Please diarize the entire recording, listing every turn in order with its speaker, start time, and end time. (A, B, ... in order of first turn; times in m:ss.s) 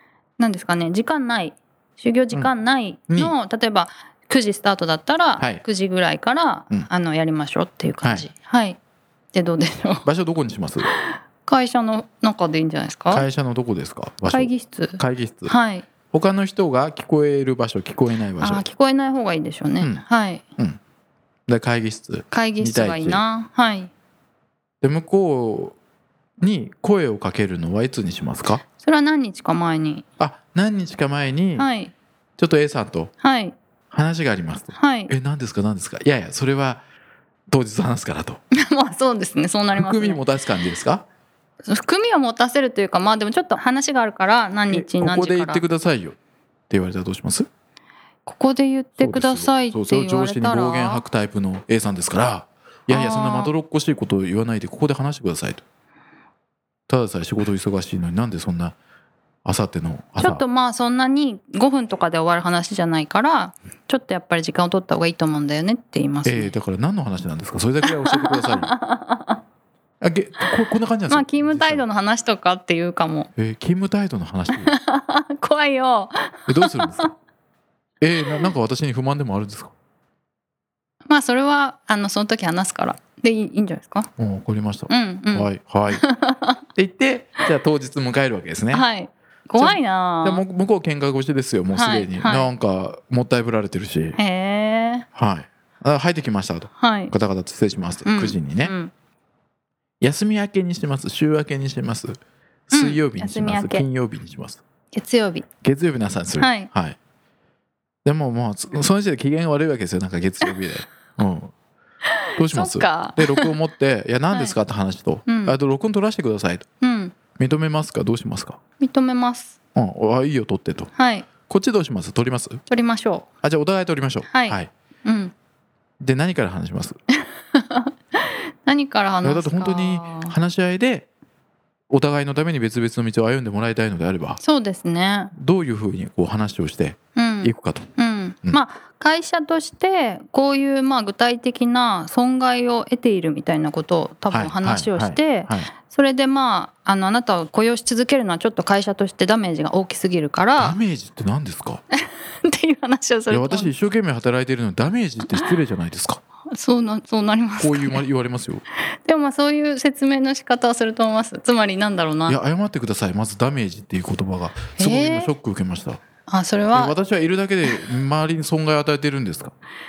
0:00.4-0:08.8 A
0:03.1-0:03.3 B
0:08.0-0:08.3 B
0:09.3-0:10.0 A
0:10.0-0:10.9 B
0:10.8-0:13.2 A
0:13.1-0:15.5 B
0:14.3-0:15.8 A
0:16.1-0:18.6 B
0:18.4-0:20.4 A
0:19.8-0:20.0 B
0:21.5-0:23.2 B
0:22.3-0:23.9 A
0:24.8-0:25.8 B
0:26.4-0:28.6 B
0:28.8-0:30.0 A
0:30.2-0:31.7 B
0:31.6-0:31.9 A
0:32.4-0:33.1 B
0:33.2-0:33.6 A
0:33.9-0:36.8 B
0:34.7-0:35.1 A
0:37.5-0:38.4 B
0:38.5-0:40.2 A
0:39.7-0:41.0 B
0:41.6-0:45.6 A
0:44.7-0:46.2 B
0:46.7-0:47.5 B
0:48.2-0:51.0 A
0:49.0-0:55.6 B
0:52.9-0:53.5 A
0:56.9-0:58.8 B
0:59.4-1:00.4 B
1:00.2-1:06.5 A
1:06.2-1:08.7 B
1:07.8-1:09.4 A
1:10.0-1:11.8 B
1:11.1-1:13.3 A
1:13.4-1:14.7 B
1:14.5-1:17.1 A
1:16.5-1:17.1 B
1:18.0-1:19.7 B
1:21.1-1:24.1 A
1:24.2-1:26.0 B
1:24.9-1:26.6 A
1:26.7-1:28.8 B
1:28.7-1:30.4 A
1:29.6-1:34.2 B
1:31.7-1:32.5 A
1:34.2-1:35.0 A
1:35.2-1:38.7 B
1:36.8-1:37.1 A
1:38.0-1:38.9 A
1:40.0-1:42.2 B
1:42.7-1:44.6 B
1:42.7-1:43.8 A
1:44.9-1:45.4 A
1:45.6-1:47.0 B
1:46.4-1:46.7 A
1:48.0-1:51.5 B
1:52.1-1:53.5 A
1:52.4-1:56.6 B
1:54.3-1:54.6 A
1:55.3-1:55.5 A
1:56.8-1:57.1 A
1:57.4-1:58.6 B
1:58.8-1:59.5 A
1:59.7-2:00.9 B
2:01.0-2:01.3 A
2:01.5-2:02.6 B
2:02.7-2:03.2 A
2:03.4-2:04.7 B
2:04.3-2:05.3 A
2:06.0-2:07.0 B
2:07.5-2:10.3 A
2:09.2-2:11.1 B
2:11.9-2:14.4 B
2:14.4-2:15.3 A
2:15.3-2:17.9 B
2:17.1-2:30.8 A
2:24.3-2:25.7 B
2:30.6-2:31.8 B
2:32.0-2:33.7 A
2:33.3-2:36.2 B
2:36.5-2:38.0 A
2:37.6-2:38.6 B
2:39.0-2:42.4 A
2:42.3-2:46.0 B
2:44.8-2:45.3 A
2:46.3-2:46.9 A
2:46.7-2:49.5 B